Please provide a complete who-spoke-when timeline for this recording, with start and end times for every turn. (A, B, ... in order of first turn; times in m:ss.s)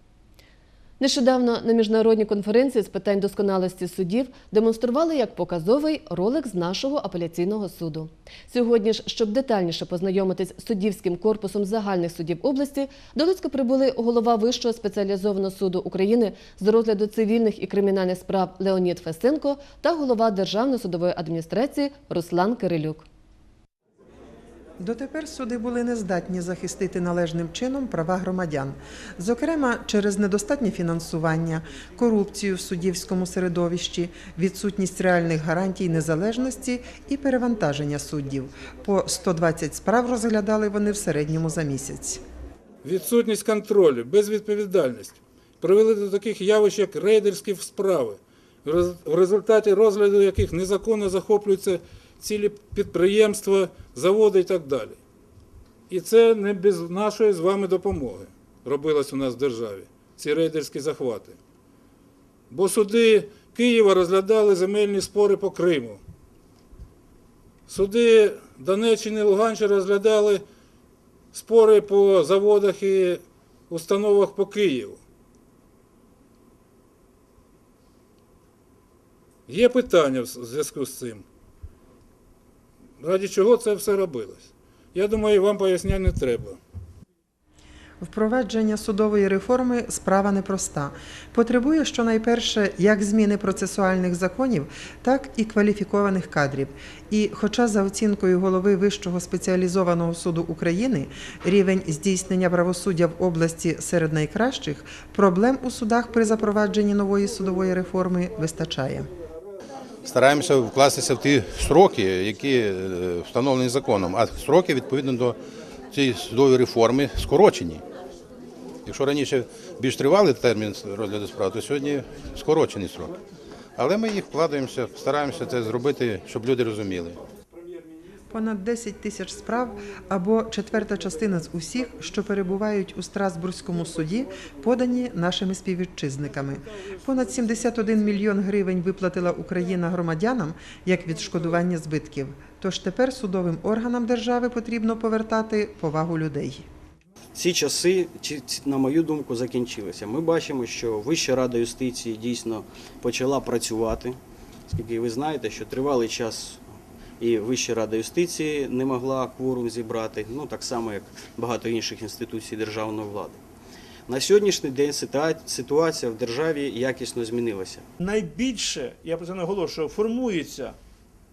0:01.0-0:23.1 A
0:24.8-0:42.2 B
0:42.8-0:55.0 C
0:55.9-1:01.4 C
1:02.5-1:06.0 C
1:07.7-1:10.4 C
1:11.3-1:15.0 C
1:19.5-1:21.2 C
1:23.0-1:26.6 C
1:28.0-1:49.1 B
1:50.0-1:55.4 D
1:55.9-1:57.8 D
1:58.9-2:03.2 D
2:03.8-2:07.2 D
2:08.3-2:26.7 B
2:27.3-2:43.4 E
2:44.1-2:47.9 E
2:48.0-2:50.8 F